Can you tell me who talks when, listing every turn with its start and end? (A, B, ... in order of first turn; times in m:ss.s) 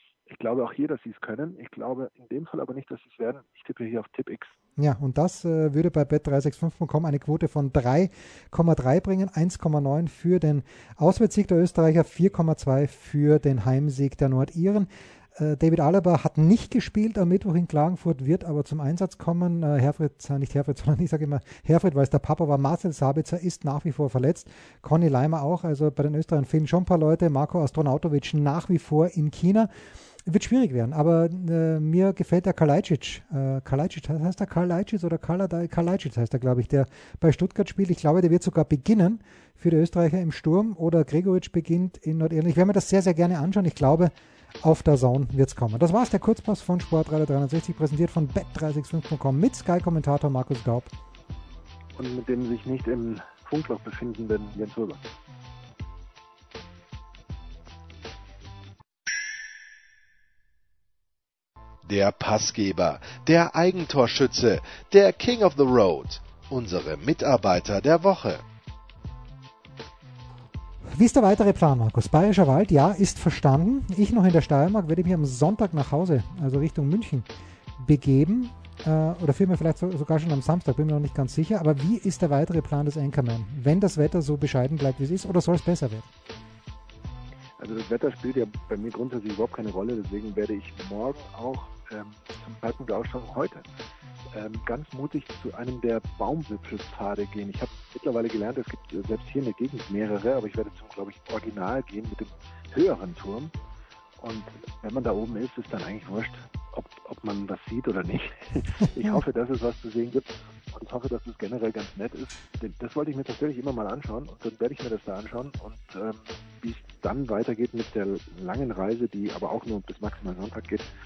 0:00.3-0:04.6 A
0:04.8-0:50.9 B
0:52.0-0:55.0 A
1:01.9-1:08.4 C
1:10.9-1:26.1 B
1:27.6-1:33.6 A
1:34.3-1:43.5 A
1:44.2-2:00.9 A